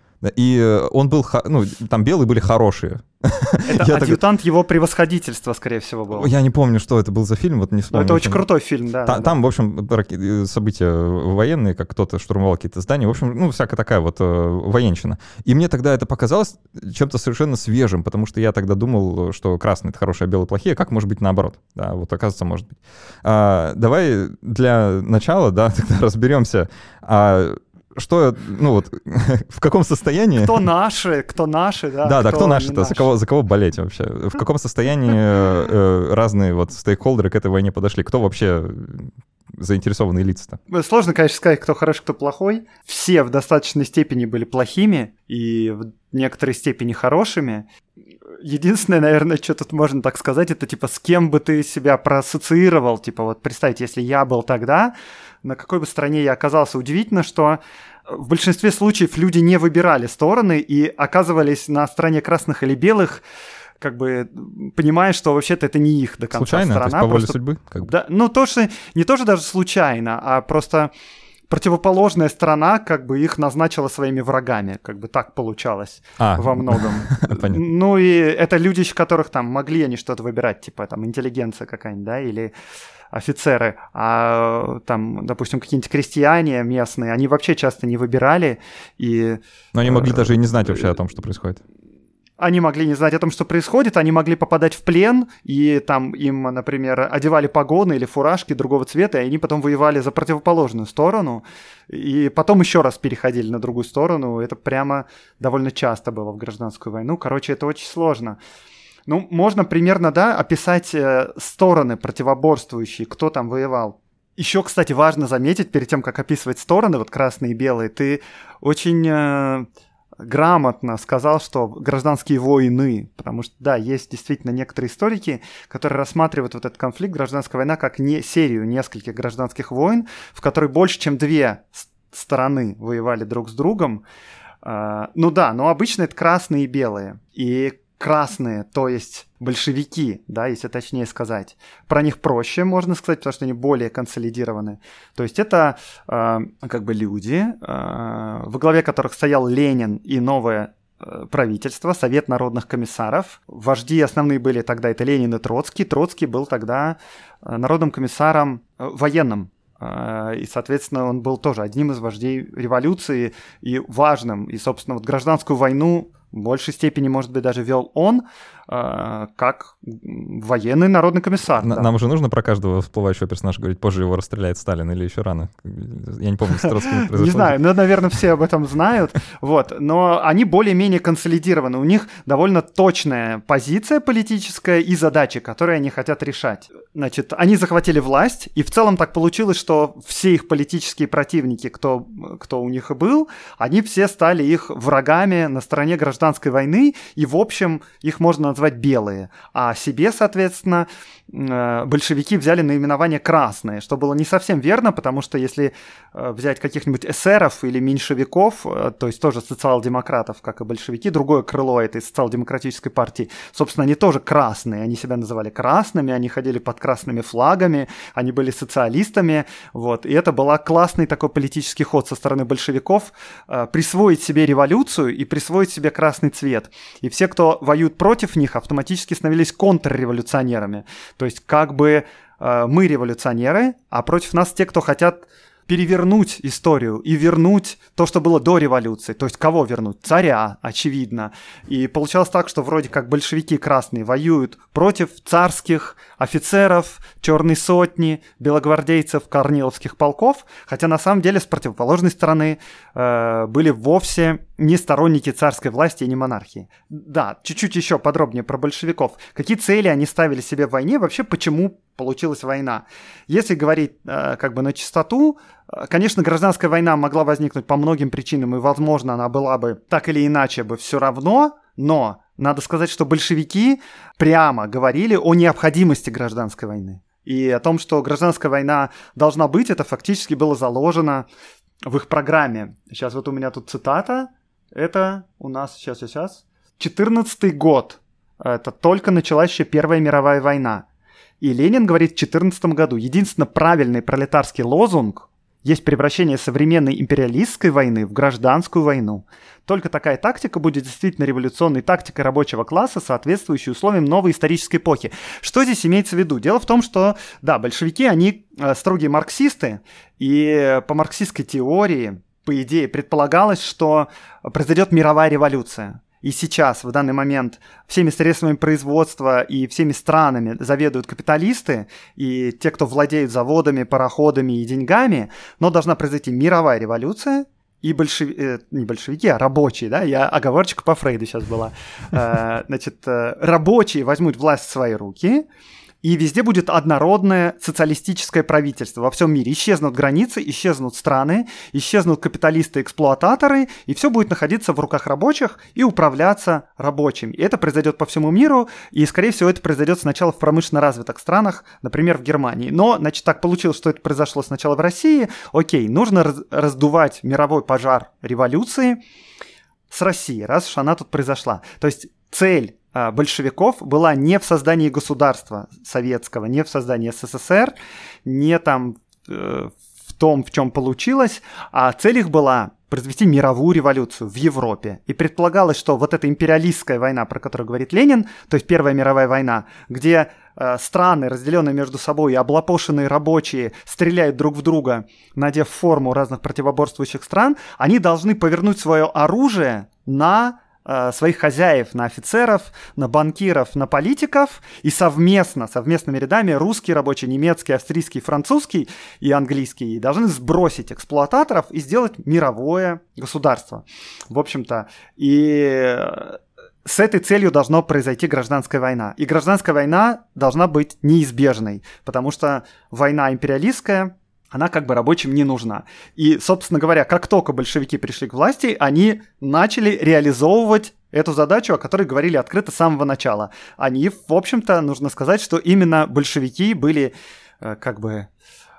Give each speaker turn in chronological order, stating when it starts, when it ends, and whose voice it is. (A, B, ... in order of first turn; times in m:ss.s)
0:00.2-0:04.2 A
0:03.7-0:06.3 B
0:06.1-0:08.4 A
0:07.9-0:09.4 B
0:09.0-0:30.6 A
0:30.3-0:33.1 B
0:32.0-0:40.6 A
0:40.7-0:47.7 B
0:48.4-1:03.2 B
1:03.8-1:10.9 B
1:06.3-1:07.9 A
1:11.5-1:22.5 B
1:16.2-1:17.6 A
1:23.1-1:30.3 B
1:29.7-1:31.6 A
1:32.4-1:48.4 B
1:49.1-1:59.6 B
2:00.2-2:14.0 B
2:14.6-2:51.9 B
2:51.6-2:57.6 A
2:56.6-4:41.3 B
4:41.9-4:50.8 B
4:51.4-5:35.4 B
5:36.0-5:59.0 B
5:59.9-6:07.7 B
6:08.2-7:08.3 B